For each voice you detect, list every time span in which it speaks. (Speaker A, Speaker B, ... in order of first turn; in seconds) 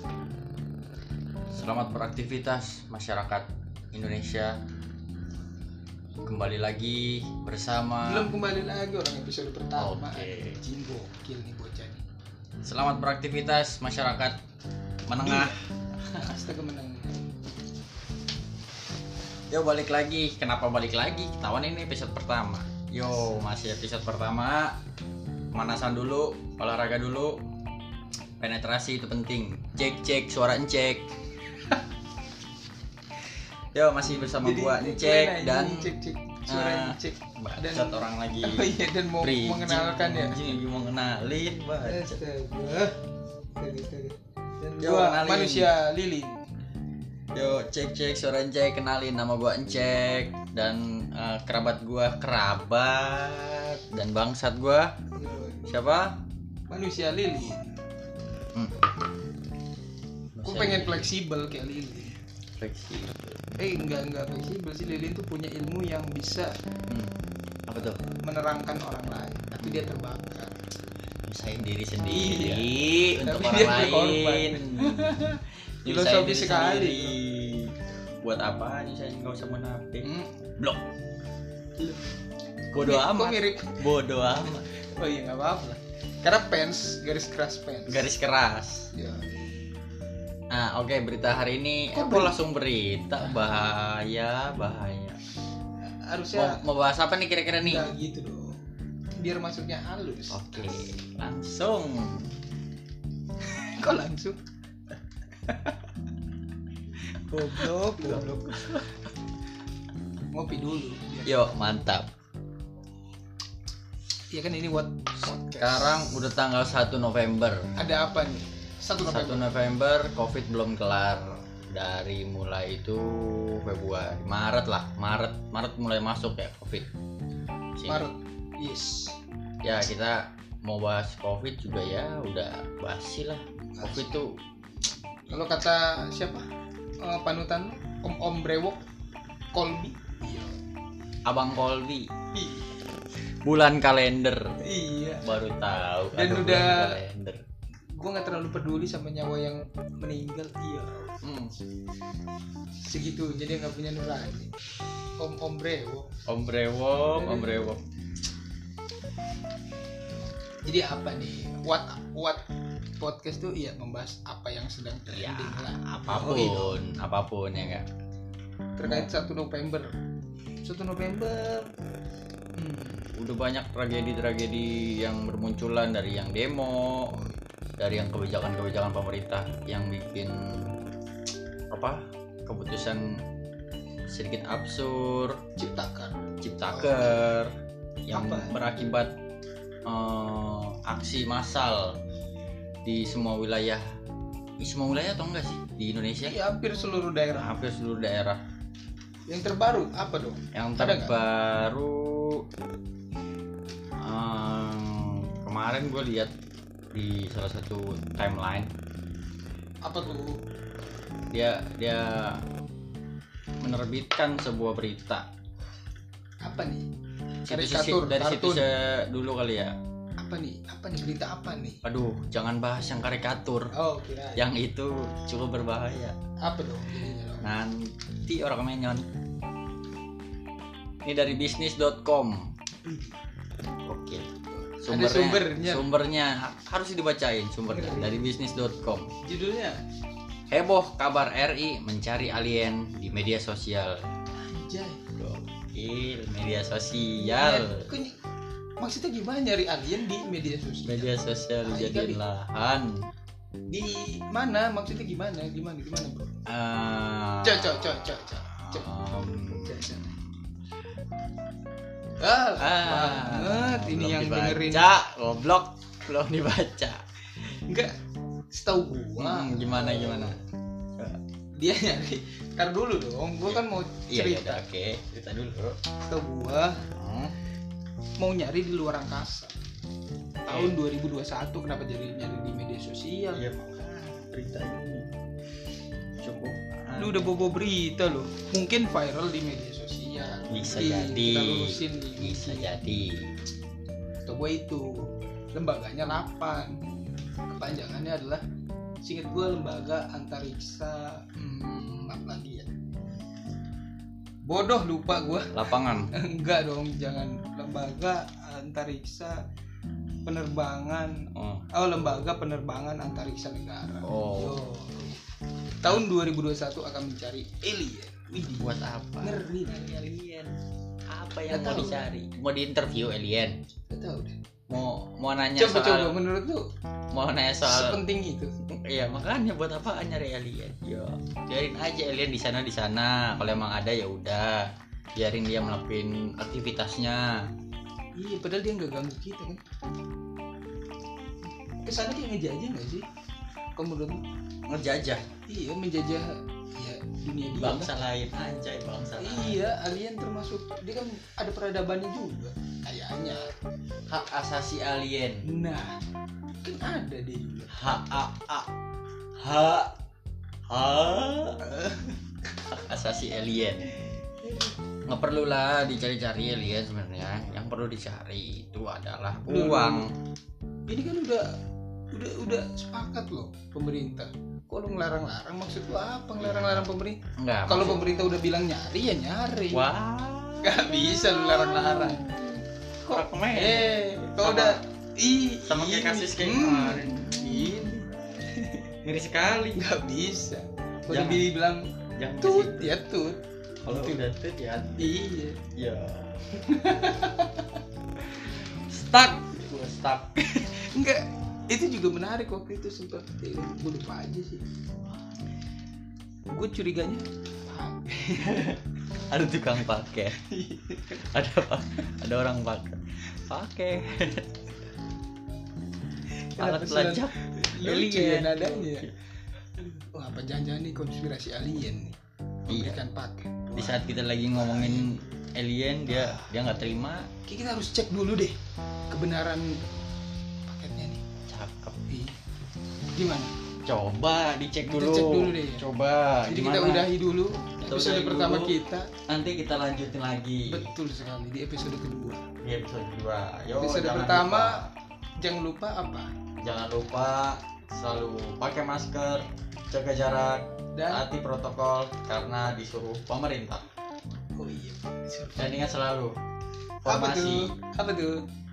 Speaker A: 1.5-4.6, 6.2-8.3, 9.8-10.6, 12.6-14.4, 15.1-15.5, 19.5-24.8, 25.5-27.4, 28.4-31.1, 33.7-35.9, 36.5-42.2, 44.8-45.7, 47.3-54.9, 55.7-56.2, 58.5-58.8, 60.4-61.1, 62.6-63.4, 66.9-67.1, 67.7-68.0, 69.6-69.9, 71.3-75.2, 75.8-80.8, 82.7-84.7, 87.9-88.9, 90.5-95.2, 96.3-97.9, 100.3-102.3, 107.6-109.0, 111.2-112.1, 115.4-117.6, 119.0-126.9, 127.8-128.1, 129.6-134.3, 141.2-142.1, 143.4-144.5, 145.2-147.4, 151.2-151.5, 156.3-157.8, 165.1-167.8, 168.8-169.1, 173.2-177.1, 177.8-180.8, 181.7-183.2, 184.1-185.4, 186.4-187.5, 188.1-189.1, 189.8-192.0, 192.8-193.8, 194.6-196.3, 197.3-198.4, 200.5-202.4, 204.0-206.3, 206.9-208.7, 211.3-212.4, 213.6-215.2, 217.4-219.7, 221.8-223.7, 224.3-226.2, 227.4-229.0, 231.0-232.5, 233.8-234.3, 234.8-239.1, 240.5-244.0, 245.2-247.9, 250.8-253.1, 256.4-260.3, 262.6-267.0, 269.2-270.4, 273.4-275.8, 276.9-277.3, 280.5-280.8, 283.3-285.1, 286.2-287.3, 290.5-293.3, 305.5-306.1, 311.3-311.6, 314.0-314.6, 318.5-320.5, 321.1-323.6, 324.7-326.1, 327.1-328.0, 328.9-337.4, 344.7-345.2, 347.5-349.6, 354.1-355.4, 357.7-358.7, 359.4-359.9, 360.7-361.6, 362.6-363.9, 365.1-370.1, 376.4-378.0, 379.7-384.8, 385.6-388.0, 389.0-389.8, 391.1-391.5, 392.2-393.0, 393.8-396.3, 398.7-400.8, 408.4-408.8, 409.3-410.4, 411.1-414.5, 416.6-419.0, 422.7-423.0, 423.8-427.3, 431.5-432.0, 433.9-437.1, 437.8-438.7, 439.3-440.9, 442.6-444.9, 446.6-453.9, 455.6-456.3, 457.0-457.7
Speaker B: 8.0-12.0, 15.2-15.6, 16.1-17.2, 34.4-40.4, 41.8-43.0, 43.6-46.4, 55.1-55.8, 56.7-57.7, 60.4-62.1, 63.6-66.5, 68.1-70.5, 72.1-77.2, 80.0-80.3, 82.7-83.8, 84.5-88.1, 88.9-89.3, 91.9-92.4, 93.2-93.7, 95.9-96.6, 97.6-98.6, 99.2-100.9, 103.6-104.4, 105.4-105.8, 107.2-108.7, 110.3-111.5, 114.3-116.2, 117.8-119.5, 127.9-129.2, 133.7-134.2, 135.3-136.4, 137.0-138.8, 139.5-140.6, 142.3-142.6, 144.6-145.4, 146.1-147.0, 147.9-151.2, 152.8-154.5, 155.2-156.1, 157.1-157.7, 160.6-162.4, 163.0-166.8, 168.8-169.9, 170.6-171.7, 172.6-173.1, 185.6-187.3, 188.1-188.5, 196.2-197.5, 199.3-201.1, 209.8-210.4, 216.4-216.8, 217.4-218.7, 220.2-221.8, 223.7-224.5, 226.4-227.5, 232.8-233.2, 234.6-235.8, 237.7-238.3, 239.2-239.8, 244.4-245.0, 247.2-248.2, 248.8-251.1, 251.6-252.2, 253.7-256.3, 257.4-258.9, 259.5-260.1, 262.2-264.9, 267.4-267.9, 268.5-270.4, 271.6-274.6, 276.0-276.8, 278.2-279.5, 280.4-283.5, 287.0-292.9, 294.2-296.8, 297.5-298.4, 299.0-302.7, 304.4-309.4, 310.2-315.2, 315.8-319.9, 321.5-322.0, 323.9-324.4, 325.6-326.6, 327.6-328.5, 338.1-339.6, 341.8-343.0, 343.8-344.2, 345.5-347.9, 349.2-353.5, 355.4-356.0, 356.6-357.8, 361.6-362.2, 364.4-364.7, 369.5-370.0, 370.9-371.4, 372.1-379.9, 380.6-382.3, 383.0-388.9, 389.7-391.9, 392.4-394.3, 395.0-395.6, 396.6-397.8, 400.9-404.7, 406.5-408.8, 410.4-411.2, 416.5-419.1, 419.8-422.1, 422.7-425.2, 426.1-426.6, 427.4-428.6, 429.1-429.8, 430.7-431.2, 432.1-432.3, 433.1-433.5, 434.8-435.9, 436.4-439.1, 440.6-442.4, 443.8-444.8, 445.4-446.3, 450.9-451.2, 454.6-455.7, 457.1-458.4